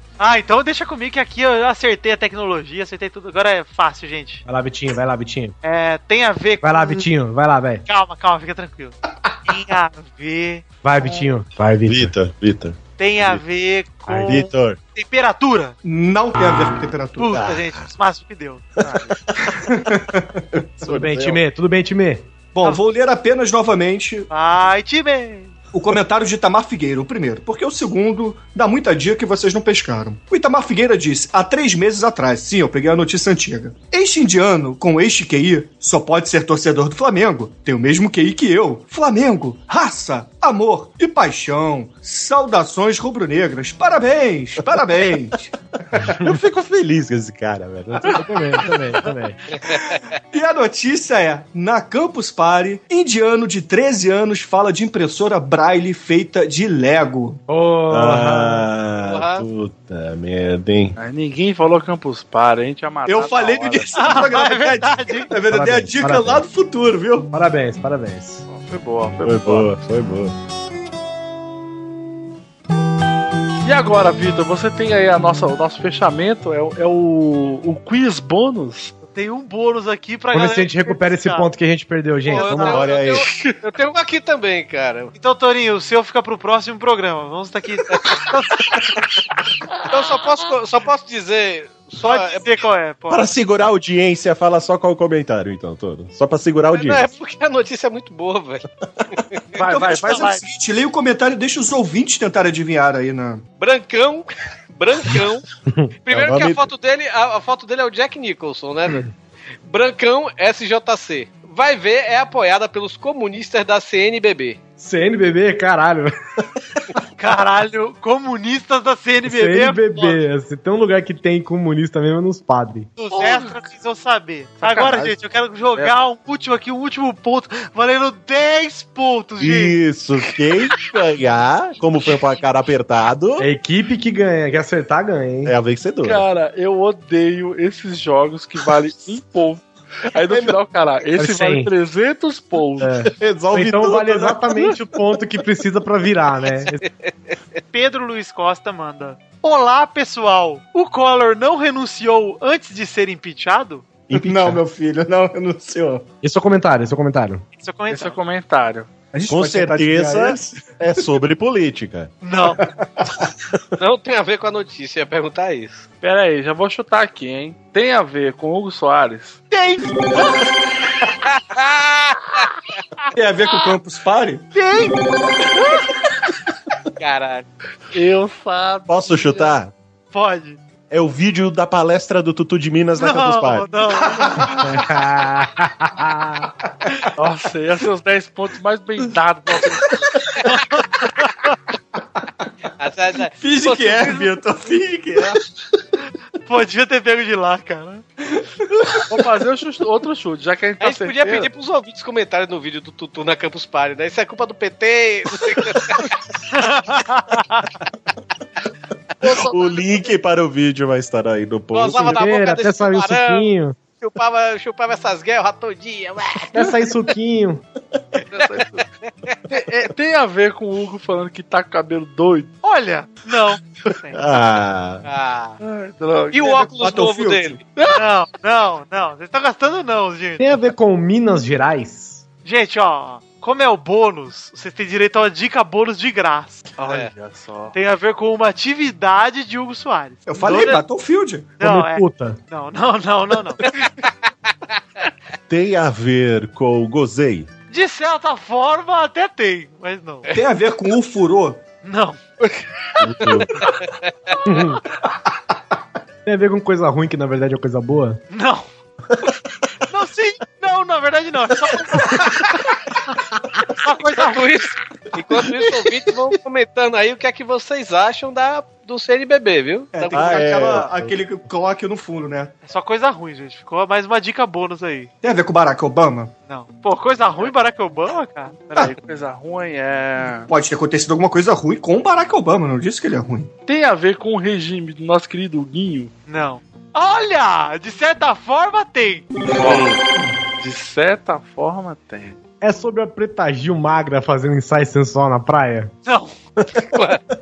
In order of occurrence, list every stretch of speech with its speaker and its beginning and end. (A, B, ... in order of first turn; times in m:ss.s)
0:00.2-0:04.4 A
0:04.4-0:05.6 B
0:05.6-0:07.0 A
0:06.6-0:07.8 B
0:07.8-0:10.6 A
0:10.8-0:12.1 B
0:11.0-0:11.3 C
0:11.8-0:13.4 D
0:13.0-0:15.8 A
0:14.1-0:14.4 B
0:14.3-0:14.8 D
0:15.8-0:17.4 E
0:17.2-0:18.8 A
0:17.3-0:17.9 D
0:19.3-0:19.6 D
0:19.4-0:20.4 E
0:20.5-0:21.4 D
0:20.8-0:22.3 B
0:22.5-0:24.3 E
0:24.3-0:25.5 A
0:25.7-0:45.5 E
0:46.1-0:48.3 D
0:46.1-0:46.4 B
0:48.0-0:49.4 B
0:50.3-0:57.4 E
0:57.5-0:58.7 B
0:57.9-1:01.0 D
0:59.0-0:59.4 F
1:01.0-1:04.2 C
1:03.0-1:07.3 E
1:03.9-1:05.3 A
1:05.5-1:06.4 B
1:07.3-1:08.4 B
1:08.5-1:09.7 C
1:09.2-1:10.4 D
1:13.6-1:18.9 C
1:19.1-1:21.5 A
1:20.3-1:22.8 B
1:22.2-1:22.8 A
1:22.3-1:25.1 F
1:22.6-1:23.3 D
1:25.1-1:28.6 A
1:29.9-1:32.4 F
1:32.0-1:33.3 A
1:33.1-1:37.1 D
1:36.7-1:39.9 F
1:39.6-1:40.4 B
1:39.7-1:43.4 E
1:39.8-1:40.4 A
1:43.6-1:45.4 F
1:46.0-1:49.1 F
1:46.1-1:46.7 D
1:49.6-1:54.6 F
1:54.8-1:56.1 B
1:57.2-2:00.2 A
1:59.2-2:02.9 B
2:03.0-2:09.8 A
2:03.1-2:03.7 C
2:04.6-2:05.2 C
2:09.4-2:13.5 D
2:13.4-2:15.5 B
2:15.4-2:16.2 D
2:16.0-2:23.1 C
2:20.3-2:20.5 D
2:21.2-2:21.7 B
2:22.8-2:26.8 B
2:23.2-2:24.7 D
2:26.8-2:27.1 F
2:27.7-2:33.9 A
2:34.1-2:34.6 D
2:34.1-2:36.0 E
2:36.2-2:37.4 B
2:37.6-2:38.2 A
2:37.9-2:38.9 C
2:39.1-2:41.1 E
2:39.3-2:42.1 D
2:42.2-2:42.6 A
2:42.6-2:43.2 E
2:43.8-2:45.8 F
2:46.0-2:49.4 C
2:49.5-2:50.3 A
2:51.2-2:52.5 F
2:53.1-2:54.5 E
2:54.5-2:55.0 A
2:57.0-2:57.4 F
2:57.9-2:59.5 C
2:58.9-2:59.7 D
3:00.1-3:00.6 A
3:00.9-3:03.7 D
3:03.0-3:04.6 A
3:04.2-3:04.5 E
3:04.6-3:06.5 B
3:07.1-3:10.0 C
3:10.4-3:11.6 A
3:12.8-3:14.2 F
3:13.4-3:15.4 E
3:16.0-3:18.0 A
3:18.2-3:19.2 E
3:19.1-3:21.5 C
3:20.8-3:26.1 F
3:26.5-3:27.7 A
3:29.2-3:29.5 C
3:29.3-3:32.2 D
3:31.7-3:36.5 F
3:31.9-3:33.8 B
3:36.5-3:37.6 B
3:38.3-3:38.8 C
3:38.4-3:39.4 F
3:39.5-3:42.5 C
3:42.6-3:44.2 A
3:44.1-3:45.0 D
3:45.0-3:45.6 F
3:45.6-3:46.6 C
3:46.3-3:47.6 F
3:46.5-3:47.6 E
3:47.8-3:48.0 C
3:47.9-3:50.5 A
3:50.4-3:52.2 B
3:52.4-3:56.7 A
3:56.8-3:57.7 C
3:56.8-3:57.1 F
3:57.7-4:00.8 A
4:00.3-4:01.6 E
4:01.6-4:03.6 A
4:01.6-4:02.4 B
4:05.5-4:07.5 D
4:07.7-4:10.3 A
4:10.3-4:11.6 E
4:11.8-4:12.2 A
4:12.4-4:13.4 C
4:13.0-4:13.7 D
4:14.4-4:14.8 B
4:16.2-4:18.2 B
4:18.3-4:18.7 A
4:19.8-4:22.7 A
4:23.7-4:24.4 A
4:24.2-4:30.8 F
4:29.9-4:32.5 E
4:30.1-4:31.2 D
4:32.6-4:35.1 A
4:35.2-4:36.3 E
4:36.5-4:38.6 A
4:38.7-4:40.5 C
4:40.5-4:43.5 E
4:43.7-4:46.1 C
4:46.3-4:49.2 A
4:49.6-4:49.9 C
4:50.6-4:52.4 C
4:52.6-4:55.9 B
4:56.0-4:56.3 A
4:56.9-4:57.2 F